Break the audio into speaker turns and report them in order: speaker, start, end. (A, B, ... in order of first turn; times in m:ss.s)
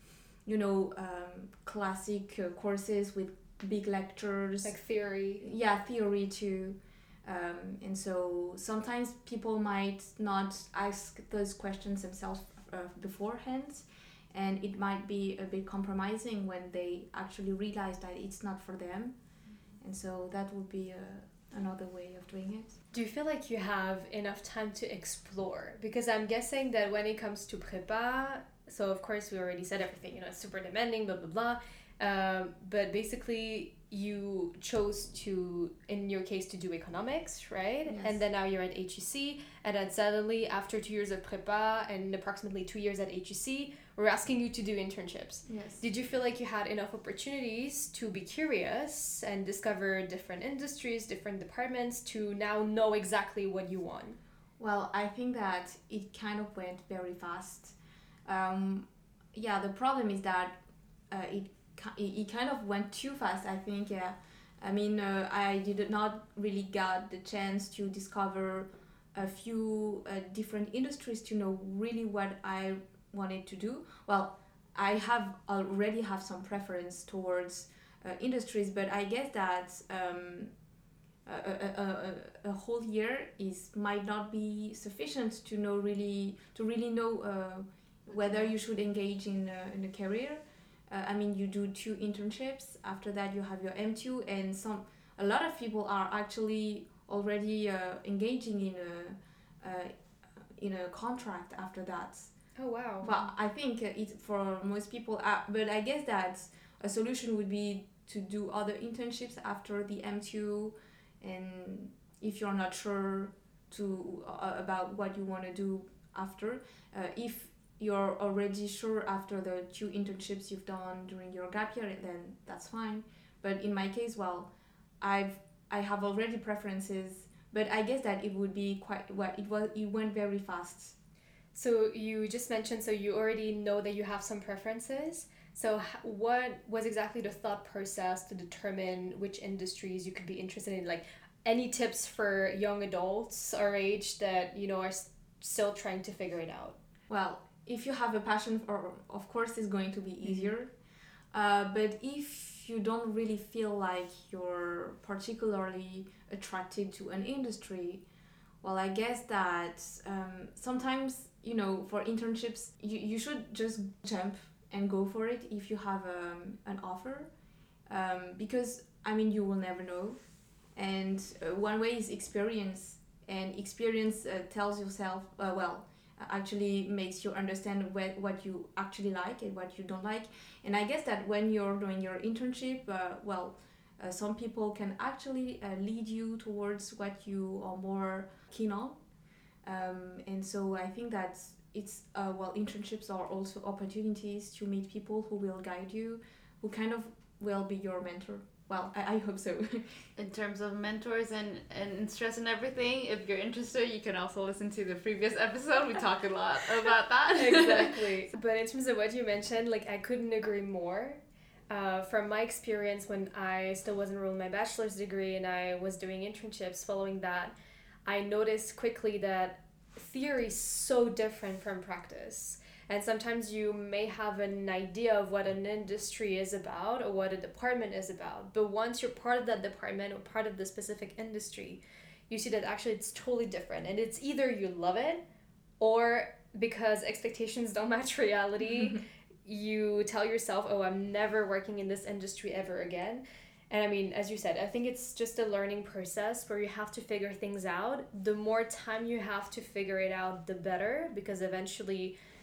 0:00.4-0:04.7 A
0:04.6-0:05.4 B
0:05.4-0:19.1 A
0:19.8-0:22.8 A
0:22.9-0:54.2 B
0:37.8-0:38.2 A
0:45.5-0:45.8 A
0:54.6-0:57.7 A
0:58.2-1:00.6 A
1:01.1-1:20.5 A
1:21.2-1:39.9 A
1:40.6-1:42.3 A
1:42.6-1:43.1 B
1:43.0-2:04.5 A
2:05.0-2:11.0 A
2:11.5-2:26.8 B
2:27.1-2:30.7 A
2:31.3-2:38.0 A
2:38.6-2:47.3 A
2:47.9-2:50.2 A
2:50.7-3:09.0 A
3:09.6-3:20.0 A
3:20.2-3:28.0 C
3:27.3-3:31.2 B
3:31.7-3:37.5 B
3:38.0-3:55.2 B
3:55.8-4:12.1 B